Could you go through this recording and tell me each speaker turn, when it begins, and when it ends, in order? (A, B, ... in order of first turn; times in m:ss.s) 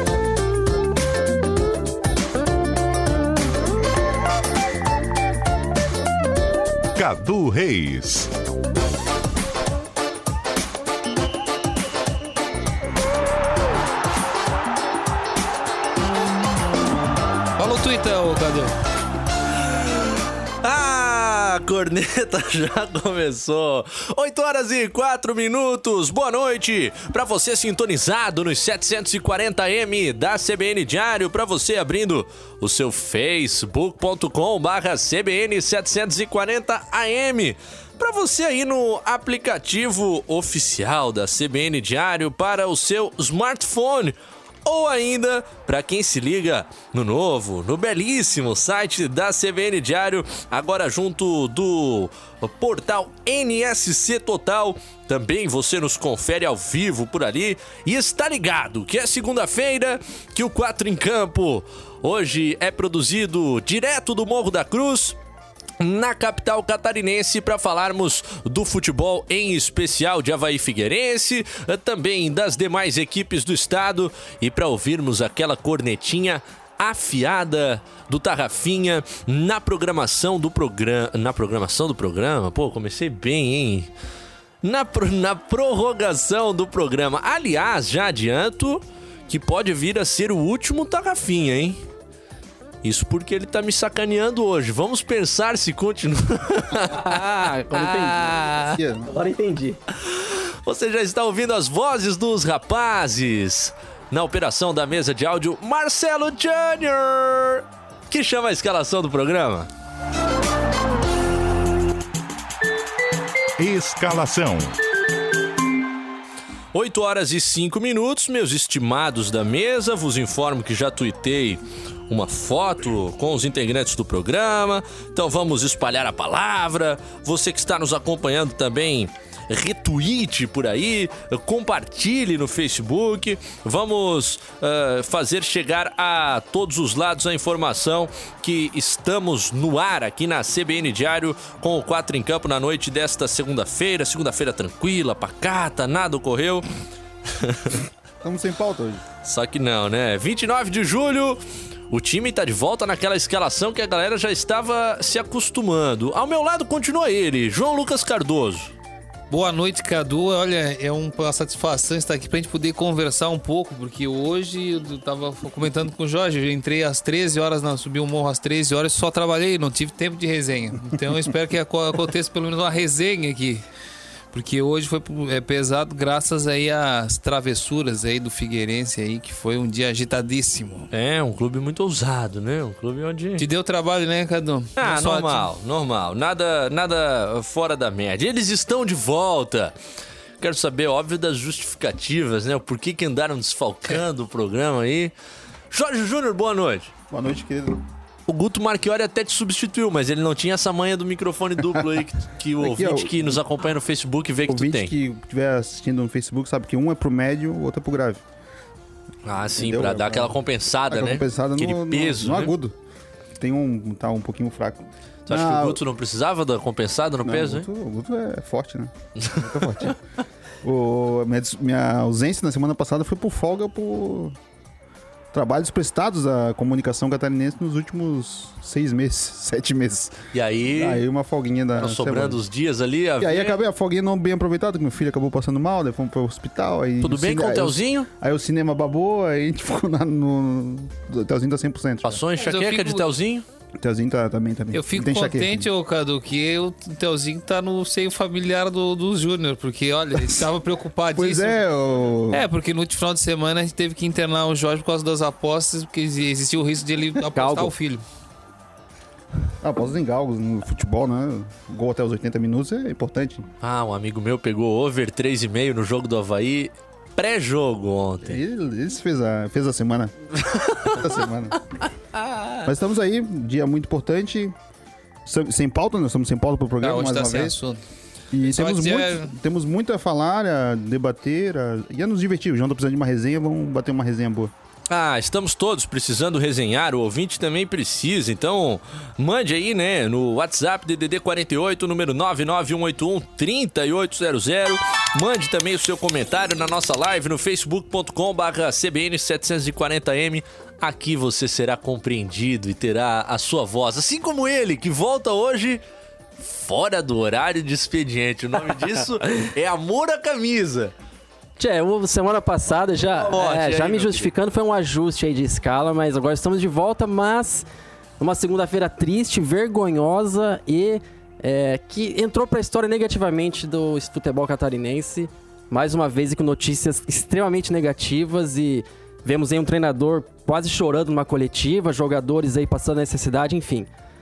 0:07.0-0:08.3 A
0:17.6-0:18.7 B
0:20.6-1:05.2 C
1:05.8-1:23.9 C
1:24.6-1:31.8 C
1:32.8-1:38.8 C
1:36.9-1:38.2 D
1:38.7-1:39.1 E
1:39.1-1:39.8 D
1:40.0-1:49.7 C
1:53.6-1:54.8 A
1:56.7-2:26.7 C
2:27.4-2:27.8 C
2:28.2-2:29.0 E
2:29.2-2:31.4 C
2:31.9-2:38.7 C
2:39.3-2:53.6 B
2:54.3-3:00.9 B
3:00.9-3:03.5 C
3:03.4-3:05.5 B
3:04.8-3:09.8 C
3:10.4-3:15.1 C
3:15.7-3:16.9 C
3:17.1-3:17.8 E
3:18.3-3:24.9 C
3:22.6-3:23.4 E
3:24.5-3:28.2 E
3:29.2-3:32.6 C
3:29.6-3:30.4 E
3:30.9-3:32.7 E
3:33.4-3:35.8 E
3:35.3-3:37.7 C
3:37.2-3:40.0 E
3:40.6-3:44.4 E
3:45.3-3:50.2 E
3:50.3-3:51.0 C
3:50.7-3:52.4 E
3:51.8-3:53.6 C
3:53.2-4:02.2 E
3:57.0-3:58.1 C
4:02.0-4:03.4 C
4:02.4-4:03.0 B
4:03.8-4:05.7 E
4:04.7-4:11.6 B
4:11.2-4:12.5 E
4:12.3-4:18.0 B
4:17.4-4:17.7 D
4:19.6-4:23.5 E
4:23.6-4:28.4 C
4:28.2-4:31.6 E
4:32.1-4:32.7 C
4:32.7-4:34.5 E
4:35.3-4:37.6 E
4:36.8-4:37.8 B
4:38.3-4:44.5 E
4:38.4-4:39.3 B
4:44.9-5:05.8 C
5:06.4-5:10.9 C
5:11.6-5:17.6 D
5:13.0-5:14.3 C
5:18.2-5:33.9 D